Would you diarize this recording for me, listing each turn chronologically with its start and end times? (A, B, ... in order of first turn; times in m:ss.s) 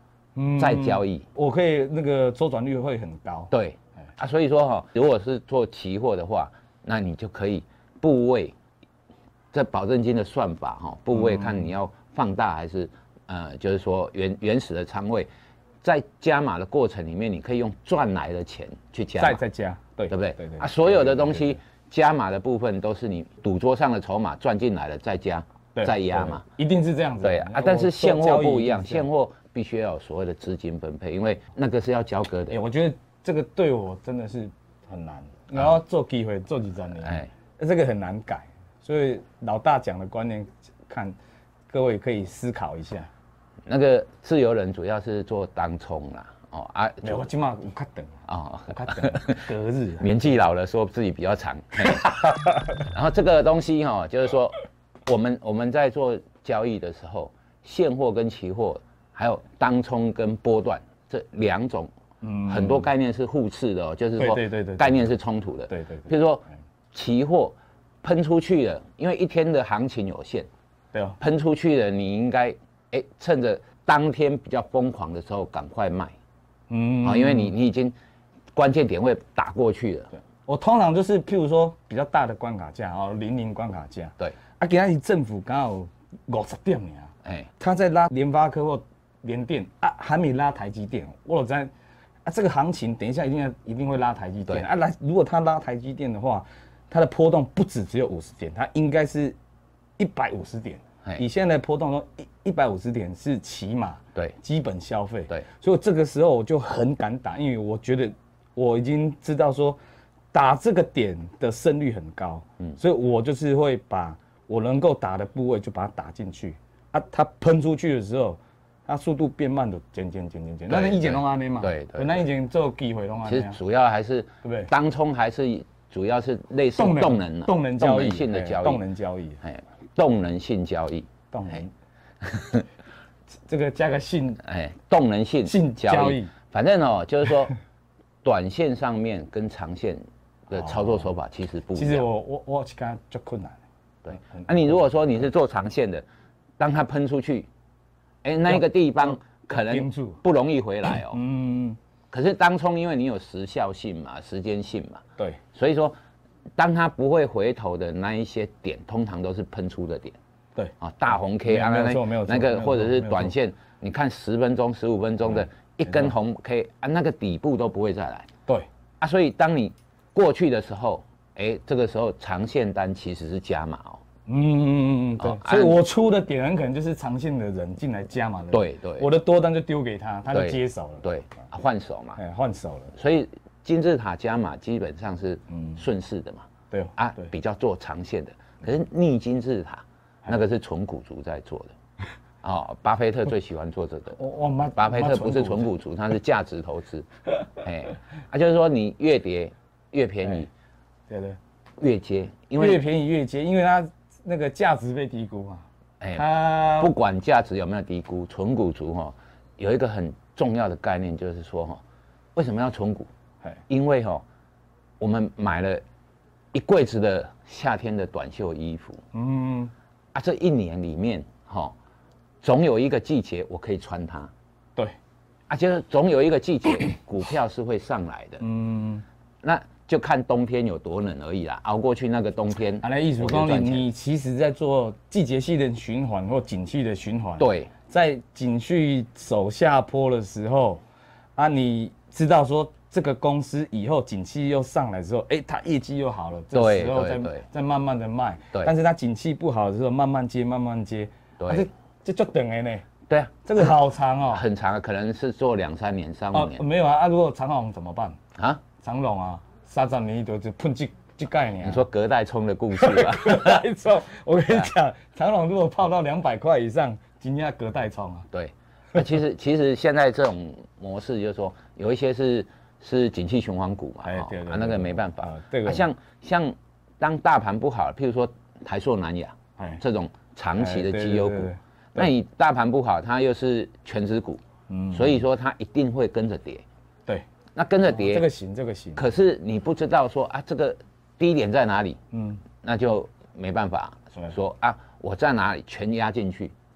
0:00.3-0:03.5 A
0:00.6-0:01.2 B
0:03.5-0:08.5 B
0:09.5-0:15.3 B
0:11.1-0:11.7 A
0:15.8-0:19.4 B
0:19.2-0:21.6 A
0:20.1-0:26.4 B
0:25.7-0:29.1 A
0:27.2-0:32.6 B
0:32.5-0:41.2 A
0:37.0-0:37.3 B
0:41.7-0:43.1 A
0:43.7-0:47.3 B
0:47.0-0:50.1 A
0:48.3-0:49.5 B
0:50.0-0:52.2 B
0:52.7-1:01.9 B
1:02.2-1:02.9 A
1:02.4-1:10.5 B
1:04.2-1:05.0 A
1:05.7-1:06.1 A
1:10.9-1:11.2 A
1:11.2-1:16.1 B
1:16.7-1:17.5 A
1:17.0-1:17.9 B
1:18.5-1:20.1 B
1:20.1-1:31.7 A
1:27.2-1:27.5 B
1:32.2-1:39.4 A
1:40.0-1:49.8 A
1:50.3-2:03.6 A
2:00.7-2:02.2 B
2:03.2-2:08.8 B
2:04.4-2:04.7 A
2:06.8-2:09.4 A
2:09.4-2:11.1 B
2:11.3-2:11.7 A
2:12.3-2:12.6 B
2:13.4-2:14.4 A
2:14.4-2:17.5 B
2:15.4-2:16.3 A
2:18.2-2:22.0 B
2:20.6-2:21.0 A
2:21.7-2:24.8 A
2:24.0-2:26.0 B
2:26.6-2:27.5 B
2:28.2-2:31.2 B
2:28.5-2:30.2 A
2:31.0-2:31.8 A
2:32.1-2:35.0 B
2:35.5-2:36.0 B
2:36.6-2:40.2 B
2:40.8-2:48.3 B
2:41.4-2:43.4 A
2:49.0-2:54.0 B
2:54.2-3:01.1 A
2:55.2-2:55.8 B
2:58.5-2:59.1 B
3:00.3-3:02.2 B
3:02.2-3:02.9 A
3:02.9-3:06.4 B
3:05.5-3:05.8 A
3:06.7-3:07.3 A
3:07.0-3:11.7 B
3:12.4-3:14.2 B
3:14.2-3:15.7 A
3:14.8-3:20.5 B
3:21.1-3:21.4 A
3:21.8-3:22.8 B
3:22.6-3:26.9 A
3:26.0-3:31.8 B
3:32.3-3:33.1 B
3:33.7-3:34.2 B
3:35.0-3:35.8 B
3:36.5-3:39.0 B
3:39.1-3:39.7 A
3:40.1-3:41.7 B
3:42.4-3:44.3 B
3:45.5-3:48.4 B
3:48.4-3:49.0 A
3:49.4-3:53.9 B
3:52.8-4:00.8 A
3:57.4-3:57.7 B
4:01.4-4:12.8 A
4:06.5-4:07.4 B
4:11.4-4:11.7 B
4:13.1-4:13.7 B
4:13.4-4:14.4 A
4:14.3-4:16.6 B
4:16.3-4:18.2 A
4:18.4-4:18.6 B
4:18.8-4:21.8 A
4:21.6-4:23.6 B
4:22.8-4:28.3 A
4:28.3-4:46.6 B
4:34.0-4:35.8 A
4:40.6-4:42.0 A
4:44.7-4:45.2 A
4:47.5-4:48.3 B
4:47.8-4:49.1 A
4:49.0-4:52.0 B
4:52.1-4:52.4 A
4:52.6-4:56.5 B